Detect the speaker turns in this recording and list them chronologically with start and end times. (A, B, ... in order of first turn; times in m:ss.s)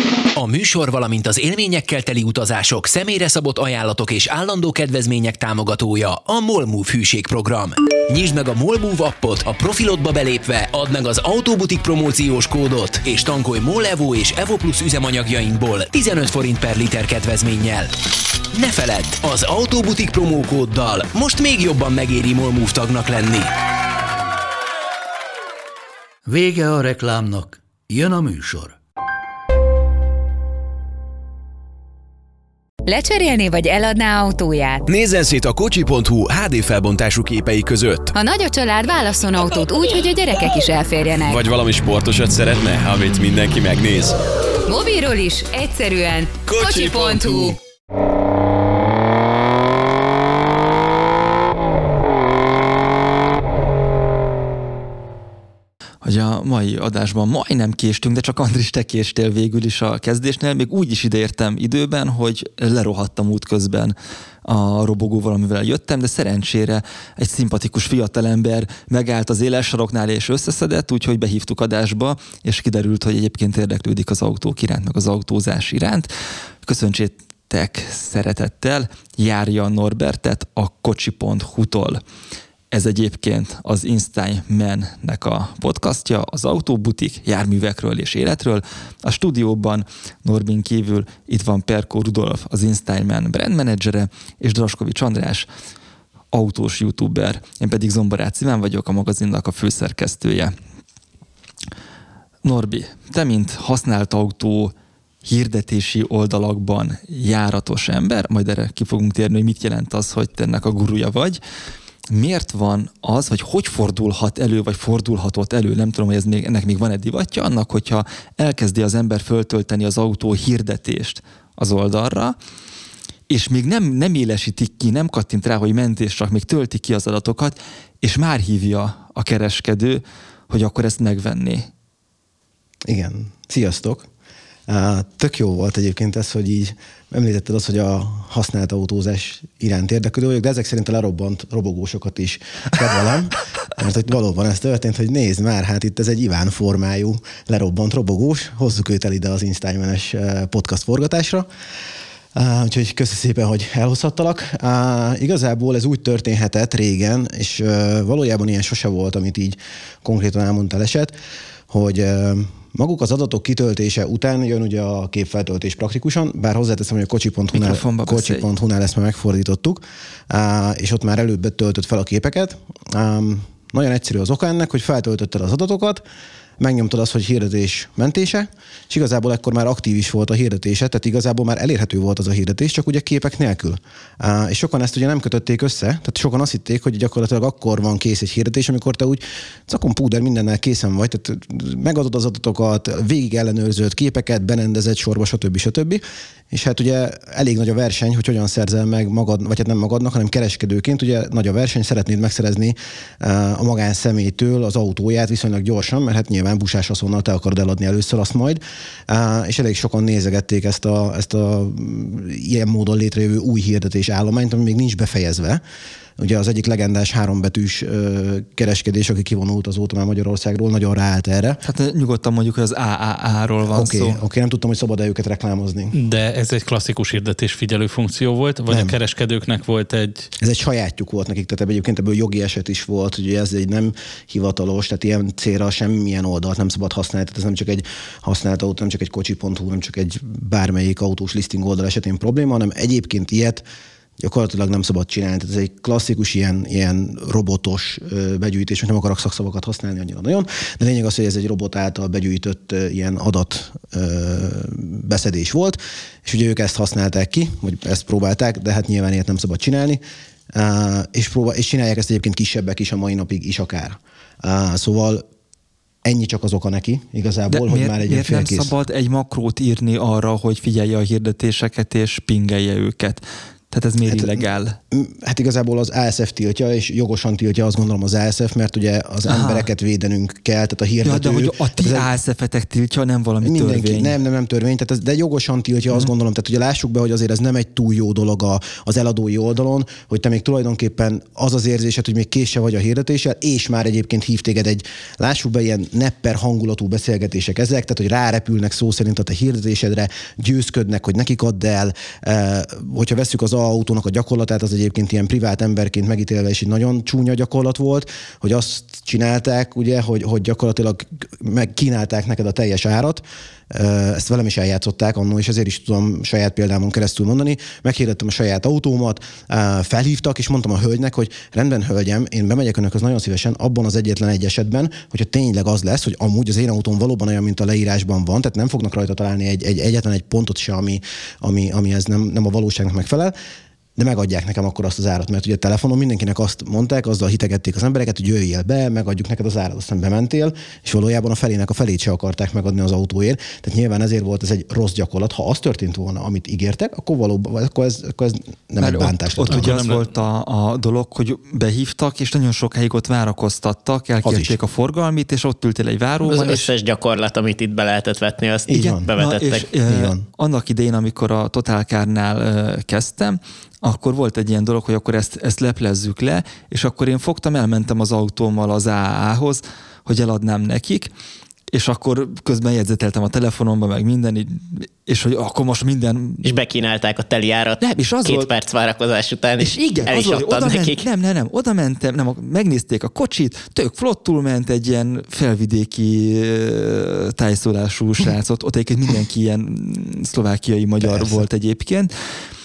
0:00.3-0:17.9 A
0:18.5-0:23.5 A
0:26.2-0:28.8 B
0:32.8-0:34.8 C
0:34.8-0:38.1 D
0:38.1-0:41.4 C
0:41.2-0:44.2 D
0:44.7-0:47.6 C
0:46.4-0:47.5 D
0:56.0-1:16.1 E
1:16.6-1:22.0 E
1:22.7-1:35.5 E
1:36.3-1:40.5 E
1:42.4-1:44.7 E
1:45.2-1:51.4 E
1:52.1-2:02.4 E
2:03.3-2:11.7 E
2:12.8-2:14.1 F
2:14.7-2:31.5 F
2:32.3-2:41.1 F
2:41.7-2:56.0 F
2:47.5-2:48.5 E
2:56.6-3:35.6 F
3:36.2-3:41.6 F
3:41.6-3:44.2 E
3:43.7-3:46.0 F
3:45.9-3:50.3 G
3:48.7-3:49.0 F
3:50.4-4:03.6 F
4:04.2-4:20.0 F
4:20.5-4:25.2 F
4:26.0-4:28.7 F
4:27.5-4:34.8 E
4:34.0-4:42.1 F
4:39.2-4:39.7 E
4:41.0-4:44.2 E
4:43.4-5:33.3 F
5:34.0-5:49.8 F
5:48.8-5:56.7 E
5:49.5-5:50.0 G
5:54.2-5:54.6 F
5:56.2-5:59.7 H
5:58.7-5:59.1 F
5:58.7-6:11.1 E
5:59.8-6:00.2 F
6:11.7-6:16.4 E
6:16.4-6:21.0 H
6:17.8-6:18.5 E
6:19.6-6:32.1 E
6:31.0-6:31.4 F